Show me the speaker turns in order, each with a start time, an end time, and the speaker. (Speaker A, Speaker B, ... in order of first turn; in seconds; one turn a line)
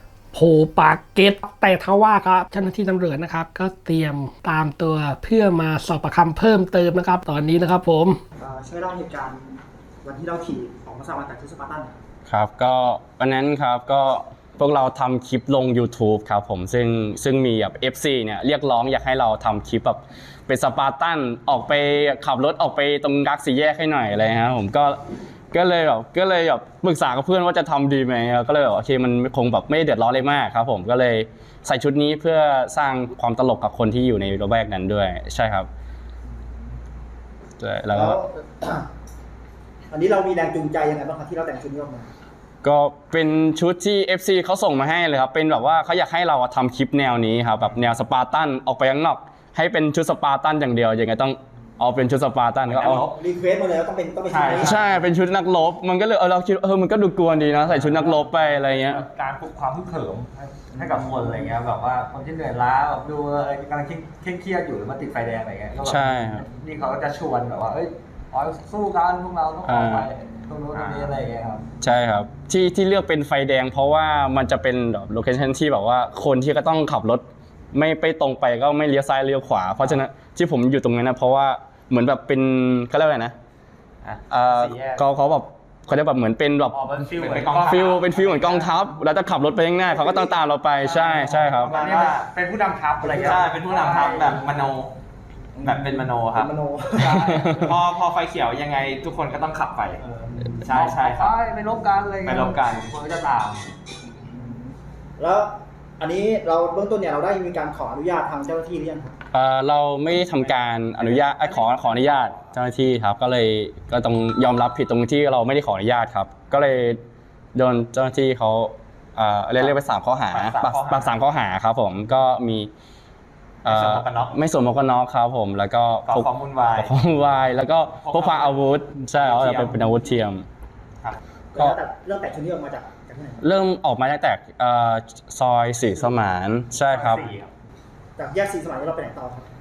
Speaker A: 0.3-8.2
Speaker B: 8.4-11.9
Speaker C: 12.2-25.0
Speaker C: 25.5-35.7
Speaker C: 37.6-38.2
Speaker B: 37.9-38.9
Speaker B: 39.9-42.1
Speaker C: 42.6-53.0
Speaker D: 52.7-53.0
Speaker B: 52.8-54.8
Speaker D: 54.3-54.9
Speaker C: 54.5-59.0
Speaker E: 57.7-71.7
Speaker B: 60.8-61.4
Speaker C: 65.8-66.5
Speaker C: 69.6-70.1
Speaker D: 70.7-71.2
Speaker C: 71.8-83.3
Speaker D: 84.0-84.6
Speaker C: 84.3-86.9
Speaker E: 84.7-85.0
Speaker E: 86.7-88.7
Speaker D: 87.1-88.0
Speaker C: 87.7-91.8
Speaker B: 89.8-90.4
Speaker E: 90.8-94.5
Speaker D: 91.6-92.3
Speaker B: 93.0-94.3
Speaker D: 93.1-94.9
Speaker B: 95.6-97.5
Speaker D: 95.6-96.5
Speaker E: 97.0-97.7
Speaker C: 97.0-97.8
Speaker D: 97.5-100.0
Speaker E: 100.0-103.7
Speaker D: 100.6-101.4
Speaker D: 102.2-102.9
Speaker B: 104.3-109.2
Speaker C: 109.3-117.0
Speaker E: 110.3-112.4
Speaker C: 117.5-122.7
Speaker D: 120.3-121.2
Speaker C: 123.6-130.4
Speaker D: 123.6-124.4
Speaker D: 126.1-127.0
Speaker D: 128.0-129.9
Speaker B: 131.5-133.4
Speaker C: 133.4-137.3
Speaker D: 136.8-137.5
Speaker B: 138.2-139.5